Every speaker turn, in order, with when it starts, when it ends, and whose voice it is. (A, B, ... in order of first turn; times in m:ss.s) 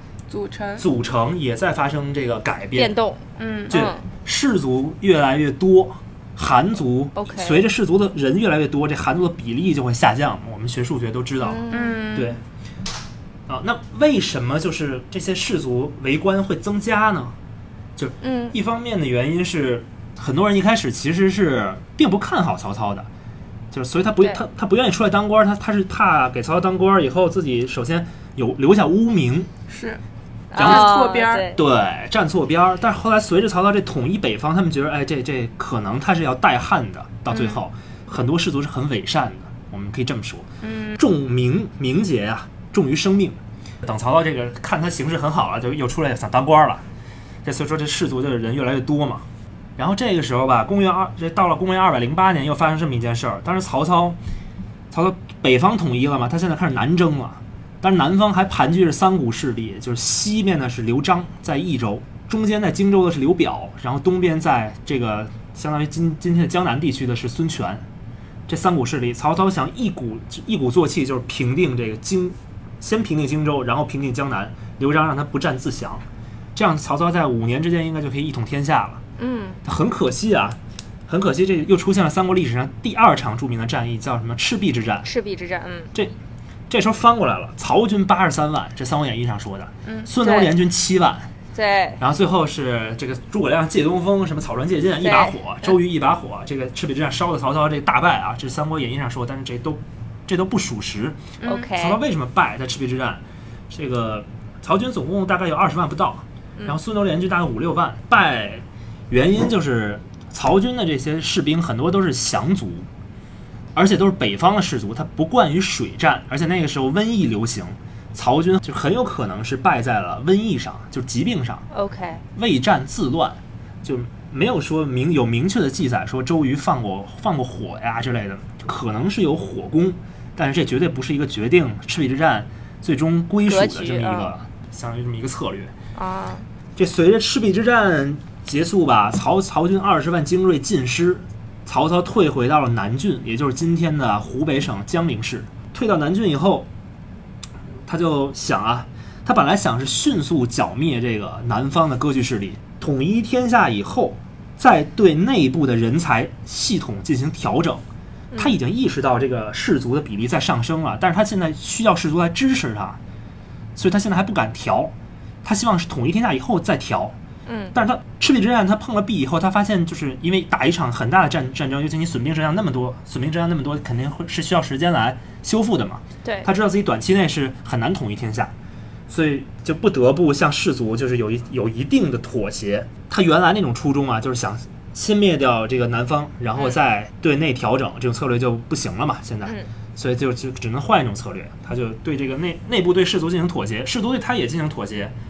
0:00.3-0:00.8 A
0:00.8-0:02.9 B
0:02.7-0:04.0 C
0:03.4-0:03.8 A
0:03.7-0:12.4 B
0:07.2-0:07.6 C
0:11.4-0:12.1 C
0:11.7-0:12.4 A
0:13.5-0:17.3 B
0:18.0-0:23.1 B
0:18.2-0:18.5 C
0:23.7-0:29.5 B
0:29.7-0:30.0 A
0:30.5-0:31.6 C
0:30.5-0:31.0 B
0:30.6-0:31.5 A
0:31.5-0:46.8 B
0:40.6-0:41.0 A
0:47.4-0:49.2 B
0:49.8-0:54.2 B
0:54.9-1:07.8 B
1:08.5-1:16.0 B
1:16.5-1:19.0 B
1:19.2-1:19.6 C
1:19.6-1:25.1 B
1:25.0-1:25.9 C
1:26.7-1:31.3 B
1:29.8-1:30.1 A
1:30.2-1:30.5 C
1:31.5-1:32.0 C
1:32.0-1:41.2 B
1:35.0-1:35.7 C
1:41.4-1:41.7 A
1:41.4-1:42.0 C
1:41.7-1:52.9 B
1:53.7-2:01.6 B
2:01.7-2:02.2 C
2:02.4-2:15.7 B
2:13.4-2:14.3 C
2:15.9-2:16.4 C
2:16.8-2:26.7 B
2:27.9-2:37.8 B
2:38.3-2:38.6 C
2:38.4-2:43.0 B
2:43.8-2:47.2 B
2:47.4-2:47.7 C
2:47.7-2:58.5 B
2:59.1-3:15.1 B